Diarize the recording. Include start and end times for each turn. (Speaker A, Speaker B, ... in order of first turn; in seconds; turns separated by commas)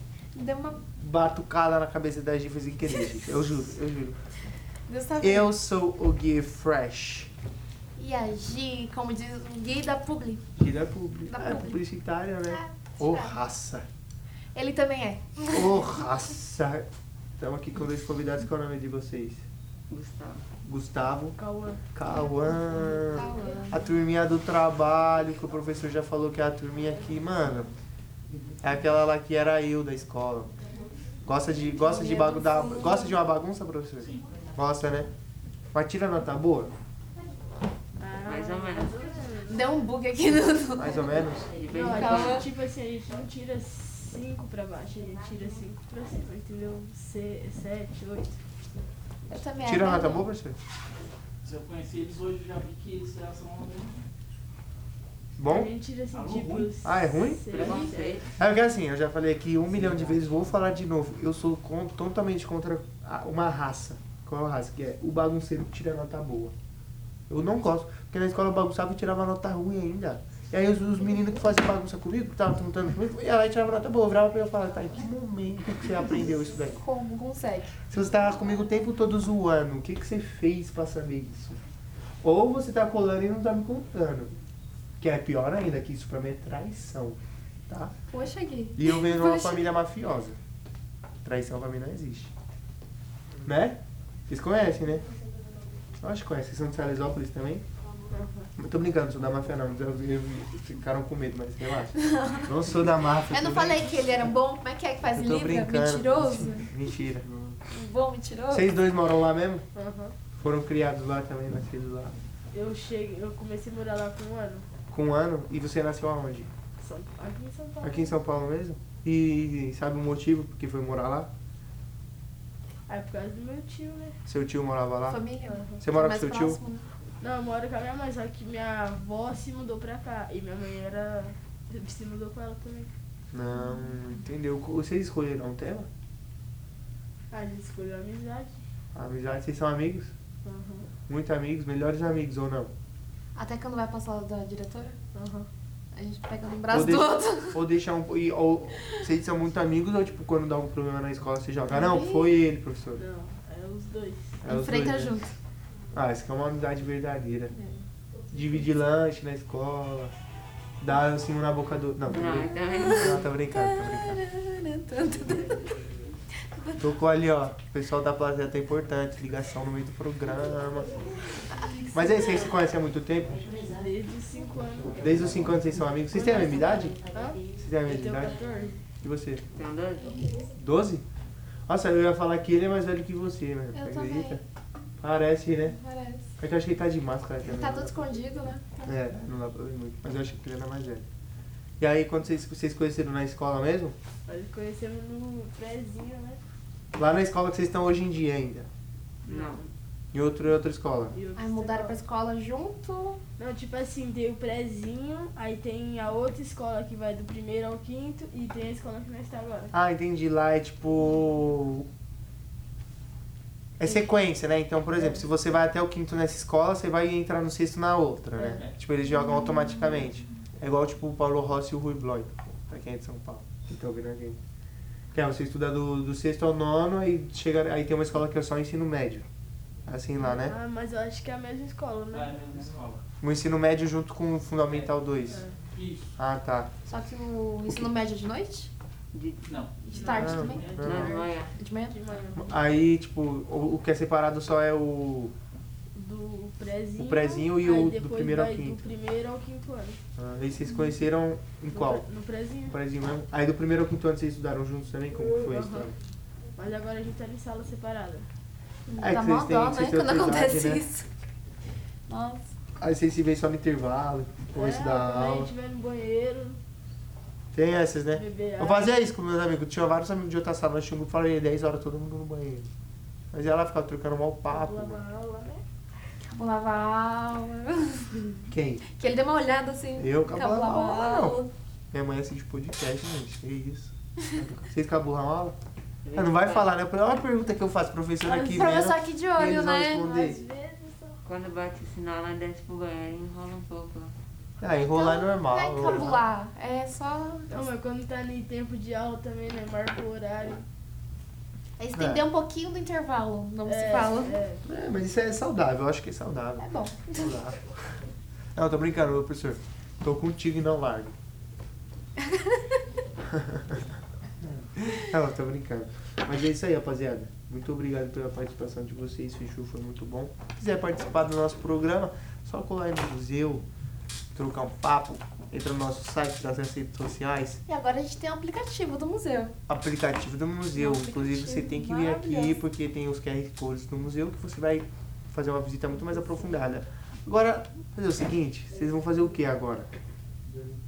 Speaker A: 0.3-0.8, Speaker B: 1.0-4.2, Speaker A: 4.9-5.5, Speaker B: 5.2-7.3, Speaker A: 8.0-10.4, Speaker B: 10.6-13.9, Speaker A: 11.3-11.8, Speaker A: 12.5-13.4, Speaker A: 14.6-15.9, Speaker B: 15.5-16.9, Speaker B: 17.4-19.4, Speaker C: 19.9-20.4, Speaker B: 20.6-21.4, Speaker D: 21.4-21.8, Speaker B: 21.9-27.7, Speaker A: 23.0-23.8, Speaker B: 28.6-30.5, Speaker B: 31.2-35.1, Speaker A: 31.9-33.2, Speaker B: 35.7-36.7, Speaker D: 38.0-39.7, Speaker C: 38.2-39.2, Speaker A: 39.5-41.2, Speaker B: 40.8-41.5, Speaker C: 41.5-42.5, Speaker D: 41.7-48.4, Speaker A: 41.8-42.5, Speaker A: 49.3-50.3, Speaker B: 49.6-50.6, Speaker E: 51.4-54.0, Speaker B: 55.4-55.7, Speaker D: 55.5-58.2, Speaker E: 56.1-56.7, Speaker B: 56.8-57.7, Speaker C: 57.5-58.3, Speaker B: 58.4-66.5, Speaker B: 67.3-76.8, Speaker A: 76.5-77.8, Speaker B: 77.9-81.6, Speaker B: 82.2-84.3, Speaker B: 85.0-87.2, Speaker B: 87.7-87.9, Speaker A: 88.1-89.7, Speaker B: 88.8-90.4, Speaker B: 91.2-92.3, Speaker B: 93.5-95.0, Speaker B: 96.0-97.6, Speaker D: 98.1-98.5, Speaker B: 98.6-104.3, Speaker A: 102.0-102.5, Speaker A: 103.3-106.7, Speaker B: 105.1-107.3, Speaker A: 107.7-108.7, Speaker B: 108.5-109.7, Speaker D: 109.8-110.1, Speaker B: 110.4-112.2, Speaker D: 112.5-114.7, Speaker B: 114.9-116.5, Speaker D: 116.8-118.2, Speaker B: 117.8-121.3, Speaker D: 122.9-124.2, Speaker B: 124.3-125.2, Speaker A: 125.1-126.8, Speaker B: 125.8-126.6, Speaker D: 127.2-132.9, Speaker B: 133.3-135.9, Speaker D: 137.3-138.6, Speaker B: 138.9-140.1, Speaker D: 140.4-140.9, Speaker B: 141.1-142.7, Speaker A: 143.4-145.0, Speaker D: 145.1-145.5, Speaker A: 145.9-147.6, Speaker B: 146.7-153.0, Speaker A: 151.7-152.3, Speaker D: 153.0-154.4, Speaker B: 154.4-155.2, Speaker A: 154.4-155.3, Speaker B: 155.9-157.5, Speaker A: 157.6-157.8, Speaker B: 158.3-160.1, Speaker B: 160.8-164.2, Speaker C: 162.1-163.3, Speaker A: 162.7-165.8, Speaker A: 166.5-166.8, Speaker B: 166.8-170.9, Speaker A: 171.5-172.6, Speaker B: 171.9-173.5, Speaker D: 173.7-175.4, Speaker B: 174.9-177.0, Speaker A: 176.1-176.9, Speaker D: 177.1-178.8, Speaker B: 177.6-178.4, Speaker B: 179.0-179.4, Speaker C: 179.5-180.3, Speaker B: 180.5-181.1, Speaker B: 181.7-184.4, Speaker A: 183.7-184.4, Speaker B: 185.0-185.8, Speaker A: 185.7-186.3, Speaker B: 186.4-188.1, Speaker A: 187.4-188.9, Speaker B: 188.8-191.1, Speaker B: 191.8-194.0, Speaker D: 194.3-196.4, Speaker B: 197.0-198.7, Speaker D: 199.2-199.7, Speaker C: 199.3-199.6, Speaker B: 200.1-201.2, Speaker D: 201.1-202.0, Speaker A: 201.4-203.2, Speaker D: 203.4-209.7, Speaker B: 209.7-211.9, Speaker B: 213.8-224.4, Speaker D: 214.9-215.2, Speaker D: 218.4-218.6, Speaker A: 219.2-219.8, Speaker B: 225.1-229.3, Speaker B: 229.9-230.6, Speaker D: 230.2-232.4, Speaker E: 232.1-233.0, Speaker B: 233.2-235.4, Speaker D: 235.3-235.6, Speaker E: 235.7-236.1, Speaker B: 236.2-236.7, Speaker A: 236.9-238.7, Speaker C: 239.1-239.5, Speaker E: 239.5-239.8, Speaker A: 239.8-240.8, Speaker D: 239.9-241.3, Speaker B: 240.1-241.2, Speaker E: 240.4-240.7, Speaker C: 240.8-241.5, Speaker A: 241.6-242.0, Speaker D: 241.9-242.7, Speaker B: 242.4-245.3, Speaker D: 245.9-250.0, Speaker B: 247.0-248.8, Speaker B: 250.2-252.1, Speaker D: 251.7-252.8, Speaker B: 252.7-255.9, Speaker D: 255.1-255.9, Speaker D: 256.6-258.3, Speaker A: 258.9-261.1, Speaker B: 259.0-260.8, Speaker A: 262.1-262.4, Speaker B: 262.8-265.5, Speaker D: 264.5-266.6, Speaker B: 267.5-272.7, Speaker D: 268.1-268.9, Speaker B: 273.3-275.0, Speaker D: 274.5-275.6, Speaker A: 276.3-281.5, Speaker B: 278.5-278.8, Speaker B: 280.0-285.6, Speaker C: 286.1-286.7, Speaker B: 286.1-290.4, Speaker A: 288.2-290.1, Speaker D: 290.0-291.2, Speaker C: 291.2-294.1, Speaker B: 294.6-296.2, Speaker A: 294.7-297.7, Speaker D: 297.5-300.6, Speaker A: 301.8-304.4, Speaker B: 301.9-302.2, Speaker D: 303.7-304.6, Speaker B: 304.6-308.0, Speaker A: 306.6-307.4, Speaker B: 308.6-311.1, Speaker B: 313.3-313.9, Speaker B: 314.4-323.6, Speaker B: 324.4-327.6, Speaker A: 327.7-329.6, Speaker B: 329.7-339.9, Speaker A: 330.7-332.6